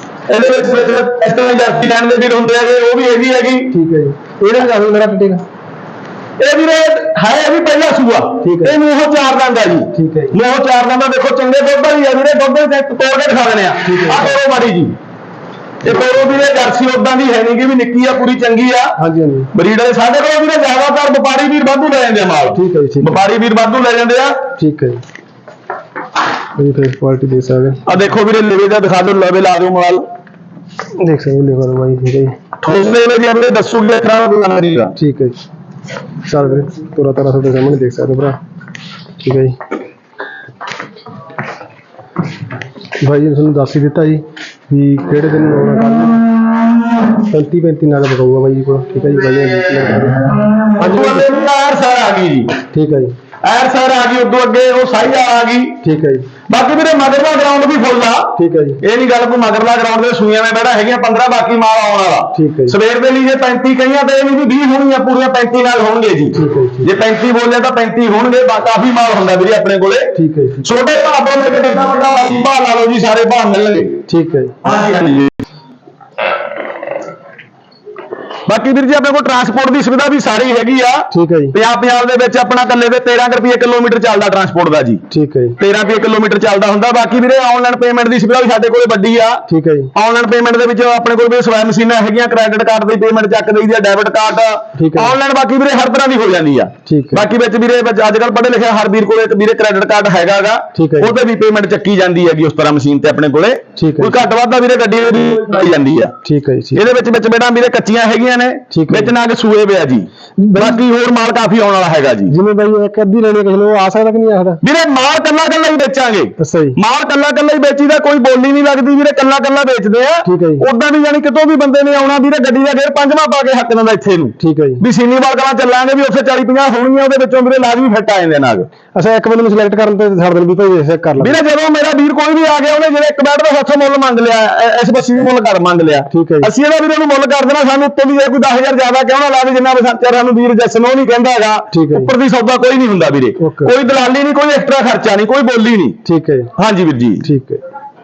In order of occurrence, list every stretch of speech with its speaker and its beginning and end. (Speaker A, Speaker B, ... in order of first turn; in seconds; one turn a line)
Speaker A: 0.3-3.7
Speaker B: 3.7-5.4
Speaker A: 6.4-14.9
Speaker B: 8.4-8.8
Speaker B: 9.9-10.3
Speaker B: 13.8-14.4
Speaker A: 15.8-18.9
Speaker B: 19.0-19.5
Speaker A: 19.5-24.4
Speaker B: 22.5-23.2
Speaker B: 24.6-25.0
Speaker B: 26.6-27.8
Speaker A: 27.9-30.1
Speaker B: 31.0-32.4
Speaker A: 32.6-34.9
Speaker B: 35.0-35.4
Speaker B: 36.2-38.4
Speaker B: 39.2-39.6
Speaker B: 43.0-46.3
Speaker B: 47.3-51.3
Speaker A: 50.8-52.6
Speaker B: 52.7-53.1
Speaker A: 53.4-55.8
Speaker B: 55.8-56.3
Speaker A: 56.5-74.0
Speaker B: 58.4-58.8
Speaker B: 62.3-62.8
Speaker B: 66.3-66.9
Speaker B: 70.2-70.7
Speaker B: 74.1-74.6
Speaker A: 74.6-75.3
Speaker A: 78.5-85.0
Speaker B: 81.1-81.6
Speaker B: 85.1-85.6
Speaker A: 85.6-89.4
Speaker B: 89.5-89.9
Speaker A: 90.0-106.1
Speaker B: 94.8-95.2
Speaker B: 96.9-97.3
Speaker B: 100.7-101.1
Speaker B: 103.8-104.3
Speaker B: 106.2-106.8
Speaker A: 106.8-112.3
Speaker B: 108.7-109.1
Speaker B: 110.4-110.8
Speaker B: 112.3-114.6
Speaker A: 114.6-128.7
Speaker B: 116.4-116.8
Speaker B: 120.2-120.7
Speaker B: 124.4-124.8
Speaker B: 128.9-131.4
Speaker A: 131.2-146.0
Speaker B: 136.1-136.5
Speaker B: 141.7-142.1
Speaker B: 143.4-143.7
Speaker B: 146.0-146.5
Speaker A: 146.6-147.3
Speaker B: 147.2-147.6